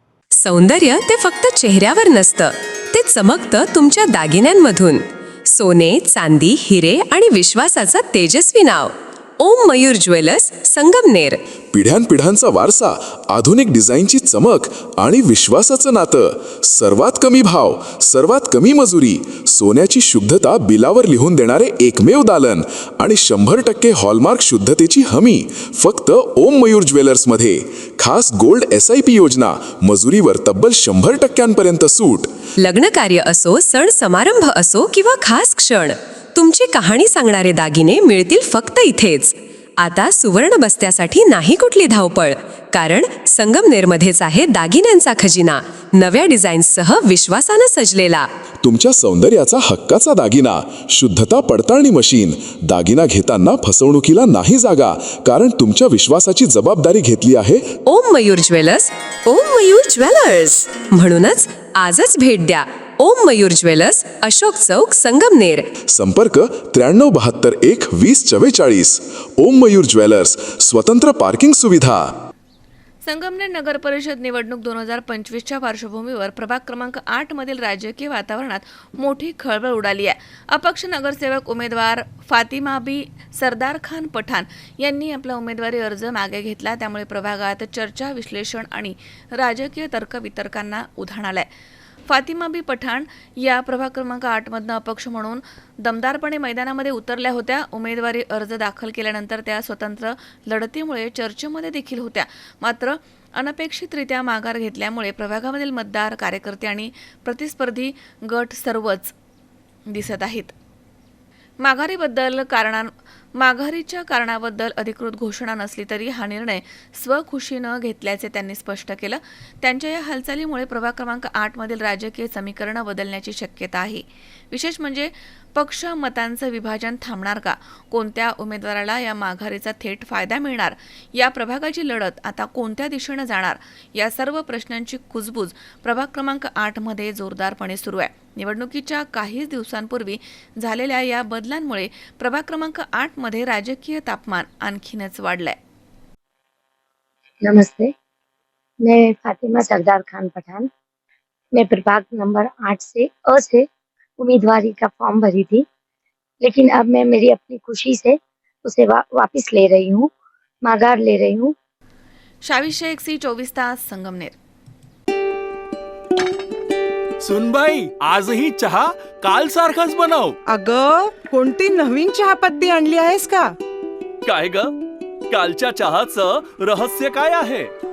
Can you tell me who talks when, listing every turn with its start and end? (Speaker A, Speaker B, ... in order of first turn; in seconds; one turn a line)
Speaker A: 0.4-11.4
Speaker B: 11.7-32.3
Speaker A: 32.6-48.3
Speaker B: 48.6-57.7
Speaker A: 57.9-65.7
Speaker B: 65.9-72.1
Speaker C: 73.0-91.5
Speaker C: 92.1-109.1
Speaker C: 109.9-110.5
Speaker C: 111.6-145.6
Speaker D: 147.4-147.9
Speaker D: 148.8-150.7
Speaker D: 151.5-153.7
Speaker D: 154.2-155.6
Speaker D: 156.4-160.1
Speaker D: 160.6-161.5
Speaker C: 162.4-164.4
Speaker E: 167.2-170.3
Speaker F: 170.4-173.5
Speaker E: 174.2-174.7
Speaker E: 175.3-177.7